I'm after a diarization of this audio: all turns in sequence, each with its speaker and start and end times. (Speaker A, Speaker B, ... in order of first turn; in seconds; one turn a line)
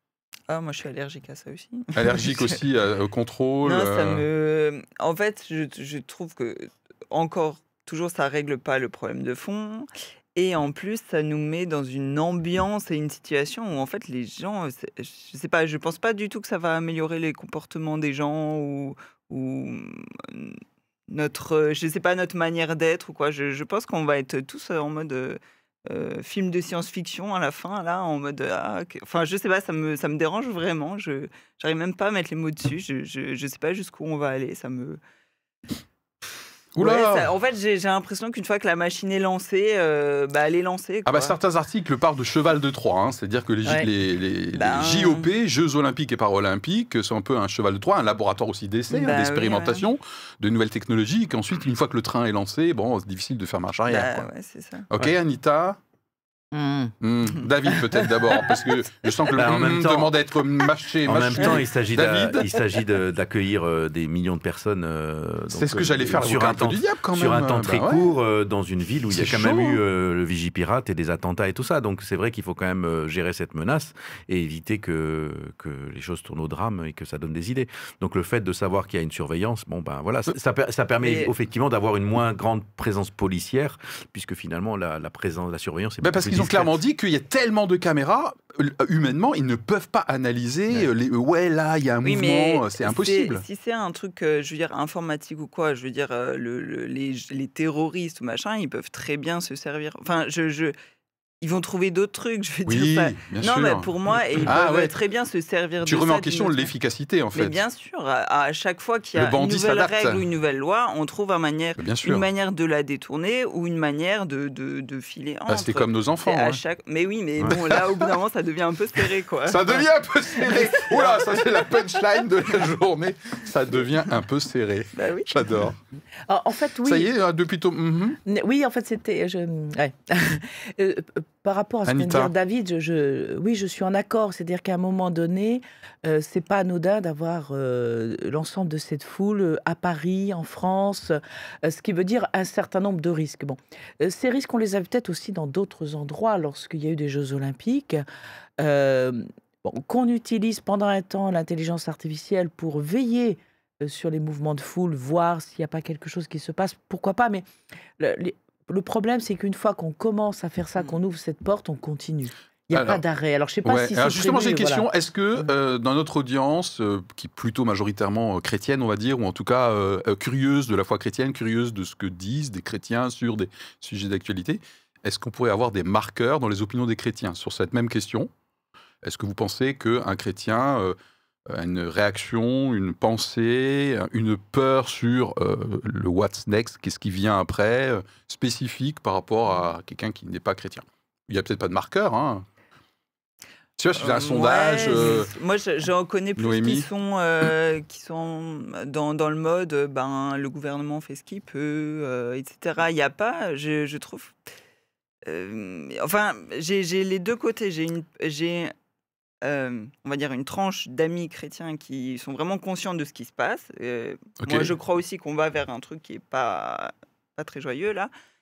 Speaker A: 0.5-2.6
Speaker B: 1.9-4.2
Speaker A: 3.6-35.0
Speaker B: 36.8-37.3
Speaker A: 36.8-41.4
Speaker B: 41.0-54.3
Speaker A: 44.5-45.3
Speaker A: 48.9-49.9
Speaker A: 53.9-54.9
Speaker B: 54.9-55.8
Speaker C: 56.5-56.9
Speaker B: 57.0-62.4
Speaker A: 57.7-58.6
Speaker D: 59.3-60.1
Speaker D: 61.0-86.7
Speaker B: 65.5-68.1
Speaker B: 69.1-69.8
Speaker A: 81.0-81.3
Speaker B: 86.0-93.4
Speaker A: 92.0-100.7
Speaker A: 101.4-106.7
Speaker B: 102.7-104.9
Speaker B: 105.8-107.6
Speaker A: 107.3-119.8
Speaker B: 109.2-110.2
Speaker B: 111.8-112.2
Speaker B: 115.5-116.6
Speaker B: 117.4-118.1
Speaker B: 119.5-125.8
Speaker A: 120.4-121.4
Speaker A: 125.0-125.3
Speaker C: 126.3-127.1
Speaker B: 126.8-128.2
Speaker C: 128.2-148.0
Speaker B: 131.8-132.3
Speaker C: 148.6-157.5
Speaker C: 158.0-164.8
Speaker B: 162.7-163.0
Speaker B: 163.6-178.3
Speaker B: 179.0-180.9
Speaker B: 181.5-192.4
Speaker B: 193.8-195.3
Speaker A: 194.0-204.3
Speaker B: 196.4-196.8
Speaker A: 205.2-208.7
Speaker A: 209.4-218.1
Speaker B: 214.4-214.7